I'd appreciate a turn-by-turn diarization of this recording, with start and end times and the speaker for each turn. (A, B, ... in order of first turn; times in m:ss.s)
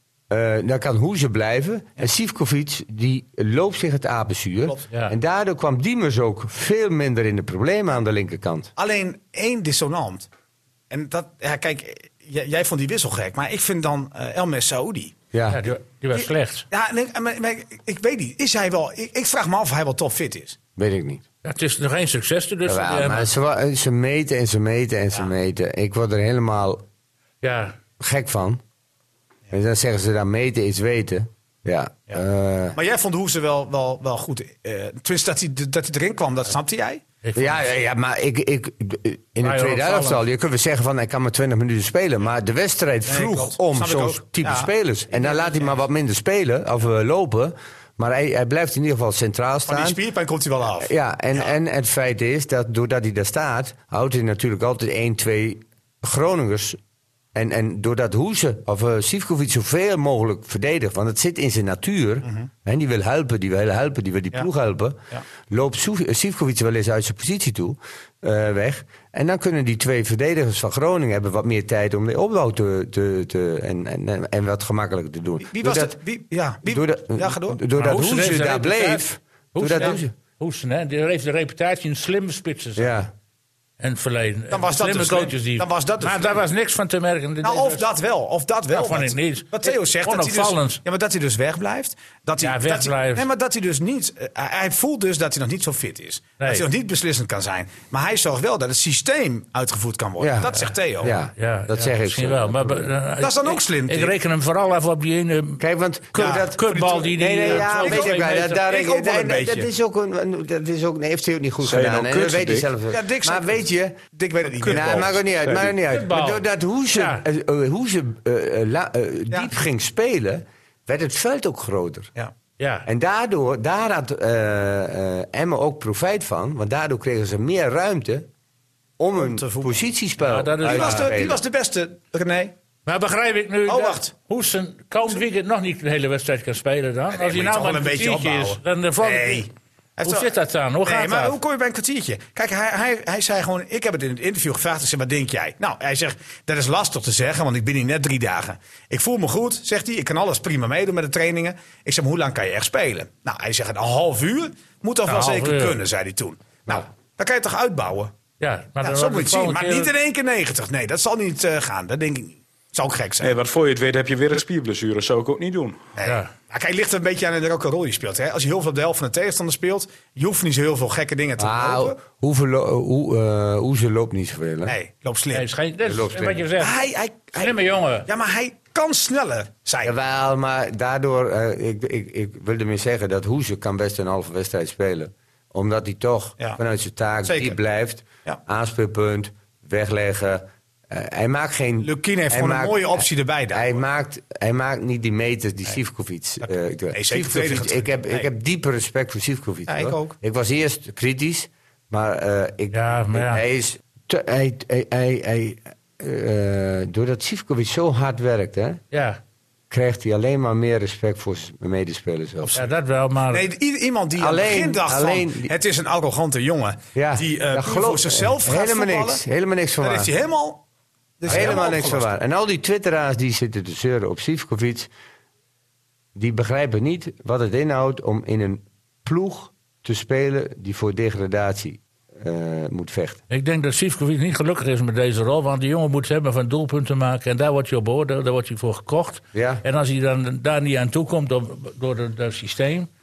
0:00.3-0:08.7 A
0:08.8-0:10.3 B
0:10.9-0:15.1 B
0:15.3-0:15.6 A
0:15.5-0:16.7 C
0:16.1-0:20.6 B
0:20.8-0:21.2 A
0:21.4-0:23.3 C
0:22.6-0:26.8 A
0:27.4-0:27.7 C
0:28.0-0:28.6 A
0:29.5-0:32.8 A
0:32.7-0:37.0 B
0:37.2-0:37.6 C
0:37.4-0:50.0 A
0:39.4-0:40.2 C
0:43.1-0:45.8 B
0:49.7-0:51.5 B
0:50.8-0:56.8 A
0:57.3-1:16.0 A
1:02.2-1:02.5 B
1:15.4-1:17.6 B
1:16.6-1:20.1 A
1:17.8-1:19.0 C
1:19.6-1:23.0 C
1:22.8-1:23.1 A
1:23.8-1:27.9 C
1:24.5-1:26.4 B
1:27.4-1:41.1 B
1:28.7-1:30.8 C
1:32.4-1:33.3 C
1:40.2-1:42.9 A
1:41.4-1:45.6 C
1:43.2-1:44.1 B
1:45.6-1:54.0 A
1:46.1-1:48.6 C
1:46.2-1:49.7 B
1:51.6-1:52.7 D
1:52.9-1:55.2 B
1:54.6-2:02.1 A
1:54.6-1:55.8 D
1:55.9-1:56.4 C
1:56.9-1:57.2 C
2:02.6-2:02.9 C
2:02.9-2:08.3 A
2:09.0-2:11.4 A
2:09.2-2:09.8 B
2:10.2-2:11.1 C
2:10.6-2:12.5 B
2:12.9-2:19.5 C
2:13.7-2:14.1 B
2:17.1-2:20.3 B
2:20.0-2:21.4 C
2:20.8-2:38.1 B
2:35.1-2:35.8 C
2:38.4-2:39.9 C
2:38.8-2:43.3 B
2:43.2-2:45.8 D
2:46.0-2:52.0 B
2:46.0-2:46.3 C
2:51.4-2:54.7 A
2:54.7-2:55.5 B
2:55.3-2:56.8 C
2:55.8-2:56.4 A
2:56.6-2:59.9 B
2:57.4-2:58.1 C
2:59.8-3:28.8 A
3:07.2-3:07.6 B
3:11.8-3:13.8 B
3:16.4-3:18.3 B
3:19.7-3:20.1 B
3:22.7-3:23.4 C
3:28.9-3:29.2 C
3:29.7-3:32.6 A
3:32.6-3:33.5 C
3:33.3-3:39.2 B
3:34.2-3:35.5 A
3:37.0-3:40.1 A
3:39.8-3:40.6 B
3:41.2-3:42.1 B
3:41.3-3:44.9 A
3:46.1-3:53.2 A
3:53.3-4:02.9 C
3:59.3-3:59.6 A